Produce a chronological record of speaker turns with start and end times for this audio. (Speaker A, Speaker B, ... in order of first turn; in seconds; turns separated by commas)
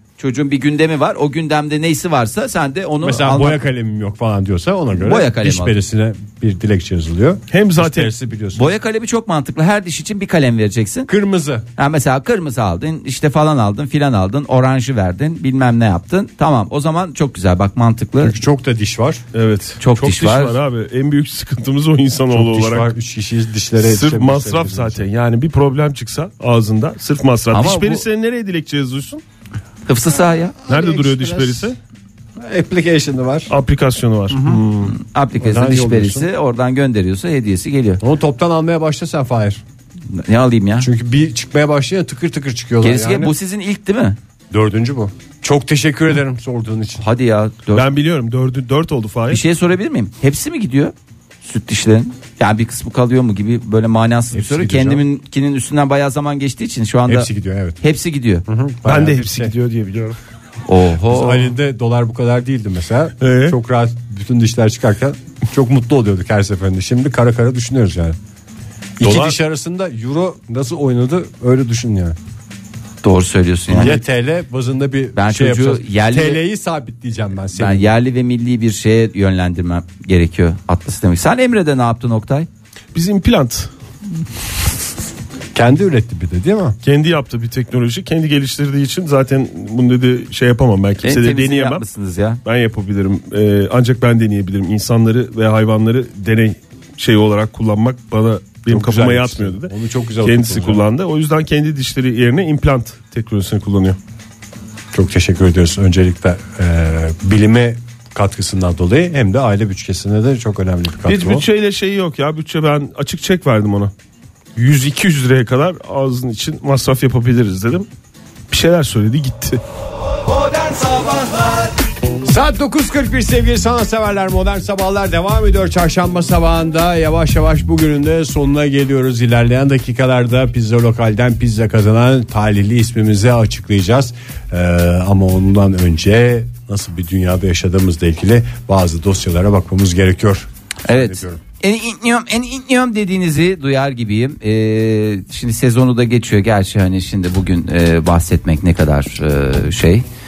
Speaker A: 0.2-3.6, Speaker B: 3.0-8.7, Speaker A: 5.0-5.8, Speaker C: 7.5-8.1, Speaker A: 8.6-11.1, Speaker B: 11.1-11.7, Speaker A: 11.8-18.4, Speaker B: 18.2-19.2, Speaker C: 19.3-22.9, Speaker A: 19.8-20.6, Speaker B: 22.3-25.1, Speaker C: 23.8-29.2, Speaker A: 27.5-28.0, Speaker A: 29.9-30.6, Speaker B: 30.7-31.7, Speaker C: 30.7-31.8, Speaker B: 32.4-33.5, Speaker C: 33.5-34.9, Speaker B: 34.3-34.6, Speaker A: 34.9-38.0, Speaker B: 35.4-36.3, Speaker B: 38.0-39.6, Speaker A: 40.1-40.9, Speaker B: 40.8-43.3, Speaker A: 42.8-44.2, Speaker B: 44.5-47.0, Speaker A: 47.0-47.9, Speaker C: 47.7-49.4, Speaker A: 49.3-57.3, Speaker B: 54.3-55.0, Speaker B: 57.1-57.8, Speaker A: 57.8-58.4, Speaker B: 58.5-59.5, Speaker C: 58.9-60.2, Speaker A: 60.7-61.5, Speaker B: 61.1-68.2, Speaker C: 63.2-63.6, Speaker B: 69.0-72.2, Speaker C: 69.0-69.4, Speaker A: 73.0-74.0, Speaker B: 73.7-77.9, Speaker A: 75.1-76.4, Speaker A: 77.5-82.5, Speaker C: 83.0-83.7, Speaker B: 85.5-86.8, Speaker C: 86.8-91.8, Speaker A: 91.0-92.4, Speaker C: 92.4-99.7, Speaker B: 98.7-100.8, Speaker C: 100.2-104.0, Speaker B: 104.9-111.4, Speaker C: 111.1-113.9, Speaker C: 114.6-117.9, Speaker C: 118.5-119.6, Speaker B: 122.2-141.4, Speaker A: 140.9-150.1